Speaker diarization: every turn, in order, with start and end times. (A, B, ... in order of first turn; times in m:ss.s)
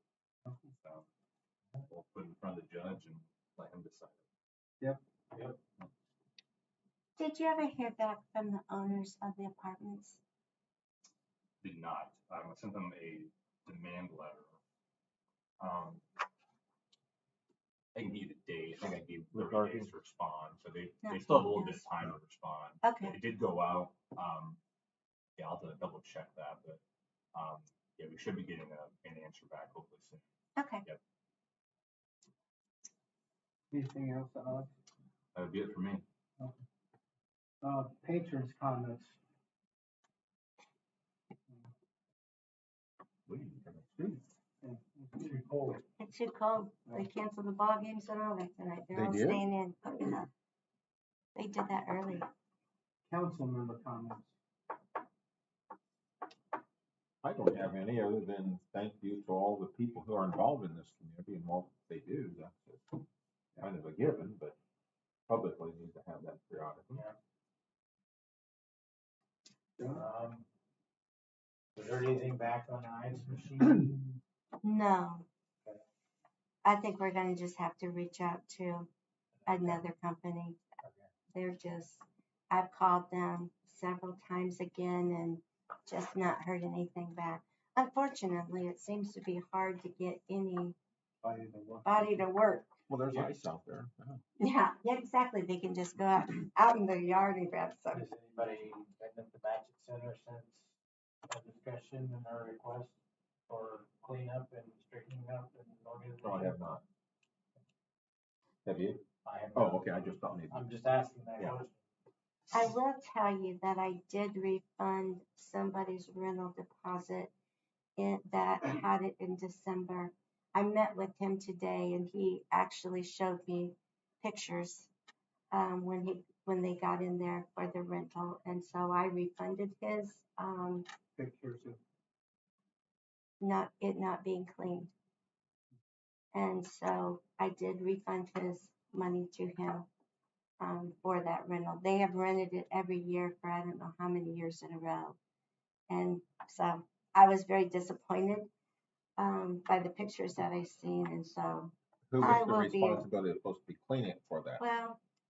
0:00.8-0:01.1 A
0:01.8-0:04.2 A
0:05.3-0:05.6 B
0:07.2-0:10.2 C
0:11.6-0:14.6 A
0:15.6-0:16.0 A
0:17.9-0:24.6 A
0:18.8-0:19.9 D
0:21.0-0:21.8 C
0:22.8-0:23.2 C
0:25.4-0:26.8 A
0:27.3-0:30.2 A
0:30.6-0:30.8 C
0:33.7-0:34.7 E
0:35.3-0:36.0 A
0:37.6-0:39.2 E
0:43.3-0:44.2 A
0:44.6-0:45.8 E
0:45.2-0:45.8 B
0:46.0-0:50.3 C
0:48.9-0:49.4 D
0:51.3-0:52.3 C
0:53.1-0:54.3 E
0:57.2-1:03.0 D
1:03.6-1:04.6 D
1:05.3-1:07.0 D
1:09.8-1:10.0 E
1:09.9-1:10.4 B
1:11.8-1:14.1 B
1:14.6-1:15.2 C
1:16.6-1:18.9 C
1:19.4-1:19.8 B
1:19.4-1:20.6 C
1:20.8-1:21.1 B
1:21.3-1:30.8 C
1:31.2-1:32.2 E
1:31.8-1:32.7 C
1:32.9-1:34.2 D
1:34.4-1:38.0 C
1:37.9-1:40.7 B
1:41.3-1:43.0 B
1:43.5-1:46.6 B
1:46.2-1:46.8 D
1:48.6-1:50.6 D
1:49.2-1:49.9 B
1:50.5-1:51.8 B
1:52.5-1:57.3 C
1:58.0-2:04.9 C
2:05.5-2:10.8 C
2:11.2-2:11.8 E
2:13.4-2:14.9 C
2:16.3-2:19.9 C
2:20.6-2:25.2 C
2:25.9-2:28.5 C
2:29.2-2:33.0 C
2:32.1-2:34.6 D
2:34.6-2:35.0 C